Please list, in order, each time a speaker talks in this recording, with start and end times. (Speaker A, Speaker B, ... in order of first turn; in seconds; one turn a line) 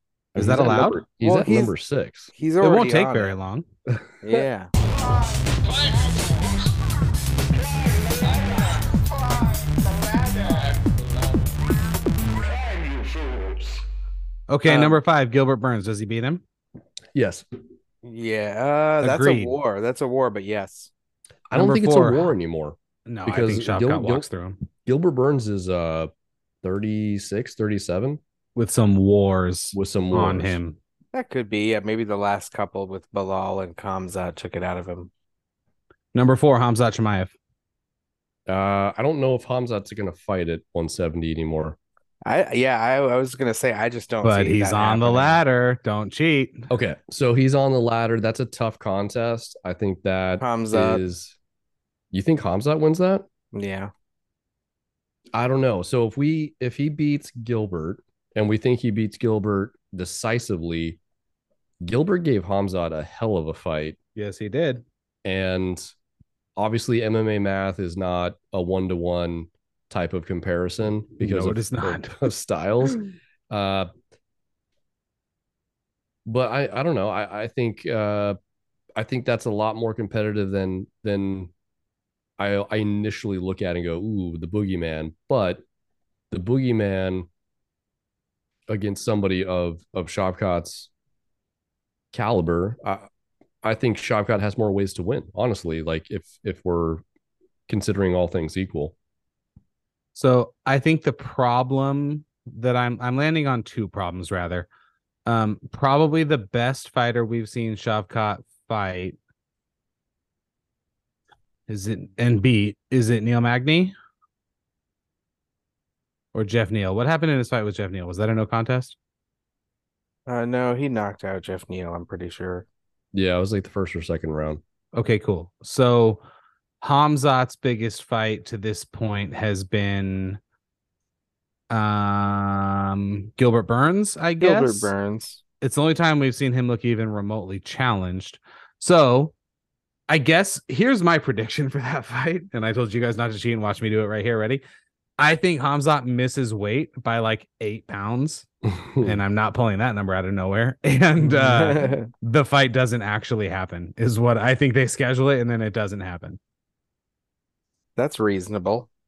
Speaker A: 0.3-2.3
Speaker B: 0.4-1.0
Speaker C: 0.6-1.7
Speaker C: 2.4-3.4
Speaker B: 2.6-3.6
Speaker A: 3.9-4.4
Speaker C: 4.2-4.7
Speaker D: 4.8-6.8
Speaker D: 7.5-13.8
Speaker B: 14.5-16.4
Speaker C: 14.7-15.0
Speaker A: 17.1-17.4
Speaker C: 18.0-20.9
Speaker B: 19.0-19.6
Speaker A: 21.5-24.3
Speaker B: 21.5-22.3
Speaker B: 23.1-24.6
Speaker A: 24.8-26.1
Speaker A: 26.6-28.2
Speaker B: 28.6-30.8
Speaker A: 29.7-30.6
Speaker C: 31.1-35.1
Speaker B: 36.1-37.3
Speaker A: 38.5-41.8
Speaker C: 42.2-45.4
Speaker B: 44.2-46.7
Speaker A: 46.7-51.4
Speaker C: 50.4-51.0
Speaker A: 52.1-53.3
Speaker C: 53.5-53.9
Speaker A: 55.3-61.0
Speaker A: 61.8-64.0
Speaker B: 64.2-64.8
Speaker A: 65.2-65.9
Speaker A: 66.6-73.9
Speaker B: 71.2-72.2
Speaker A: 76.3-78.4
Speaker A: 79.0-81.5
Speaker A: 82.4-85.6
Speaker A: 86.3-87.3
Speaker A: 88.7-90.9
Speaker A: 92.1-93.1
Speaker A: 93.6-97.0
Speaker A: 97.7-99.0
Speaker B: 100.2-104.7
Speaker B: 105.3-109.2
Speaker B: 111.7-113.9
Speaker B: 116.3-119.0
Speaker C: 120.3-122.7
Speaker A: 123.1-124.6
Speaker B: 124.9-126.2
Speaker B: 126.8-130.4
Speaker B: 131.7-134.9
Speaker C: 134.4-135.4
Speaker B: 135.6-139.3
Speaker B: 140.1-144.6
Speaker B: 145.2-148.5
Speaker A: 148.7-149.2
Speaker B: 149.0-156.4
Speaker C: 151.3-152.1
Speaker C: 158.0-158.9